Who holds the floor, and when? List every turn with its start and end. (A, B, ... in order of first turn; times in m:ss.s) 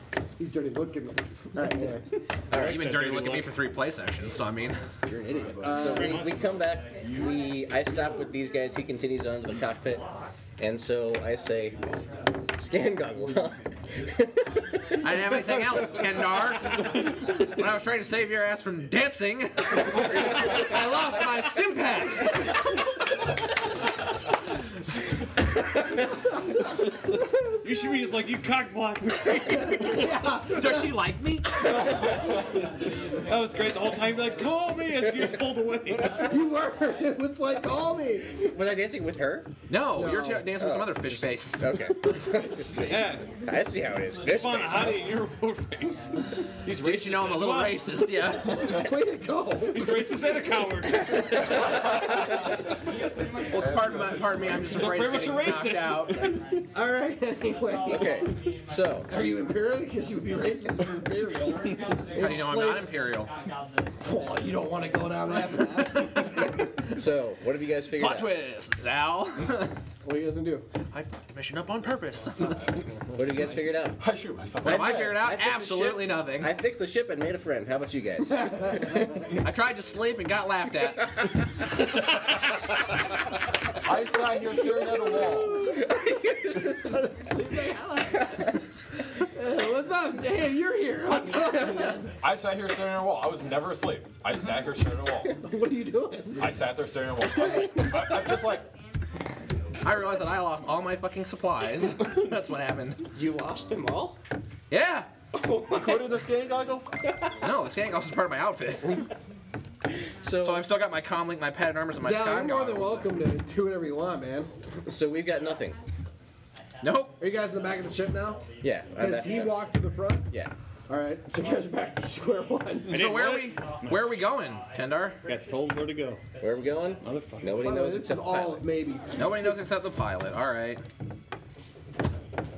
0:00.4-0:02.1 A
0:02.5-0:03.6 B
0:02.5-0:04.8 C
0:05.1-0:06.3 A
0:05.5-0:10.0 D
0:05.7-0:06.4 B
0:10.6-0:11.8 D
0:12.6-0:14.5 D
0:15.0-0:22.5 C
0:27.6-0:30.0 B
0:29.7-0:31.0 A
0:30.5-0:31.7 C
0:33.3-0:36.3 B
0:36.2-0:38.3 A
0:38.4-0:45.2 D
0:39.7-0:41.7 C
0:40.0-0:40.4 A
0:42.8-0:43.3 B
0:44.2-0:46.1 B
0:46.6-0:47.9 B
0:46.7-0:48.8 C
0:48.5-0:50.1 A
0:49.6-0:51.2 B
0:53.5-0:56.3 C
0:53.5-0:54.5 E
0:54.6-0:56.4 B
0:56.7-0:58.3 A
0:57.8-0:59.1 D
0:59.0-1:02.9 A
1:02.1-1:03.3 C
1:04.0-1:06.4 A
1:06.9-1:08.3 D
1:07.9-1:09.7 C
1:10.0-1:10.7 A
1:10.9-1:12.6 C
1:13.1-1:13.6 A
1:13.1-1:14.0 D
1:14.0-1:15.2 E
1:14.6-1:16.5 C
1:14.6-1:18.8 D
1:19.3-1:21.1 C
1:23.8-1:25.7 E
1:26.6-1:28.4 A
1:29.2-1:32.0 A
1:31.8-1:35.4 E
1:35.4-1:36.6 A
1:36.4-1:38.6 E
1:37.4-1:38.2 A
1:39.8-1:43.0 C
1:43.1-1:44.2 D
1:44.7-1:45.1 C
1:45.4-1:46.4 D
1:45.7-1:46.9 E
1:47.4-1:49.1 C
1:50.2-1:50.7 D
1:50.4-1:53.1 C
1:52.0-1:54.5 A
1:54.8-1:55.8 D
1:56.8-1:57.2 C
1:57.2-2:00.2 A
1:58.6-1:59.7 D
2:00.9-2:03.0 A
2:02.9-2:04.2 B
2:02.9-2:05.2 C
2:05.3-2:06.2 B
2:06.4-2:08.6 D
2:07.0-2:07.4 B
2:07.6-2:09.6 A
2:09.1-2:10.8 C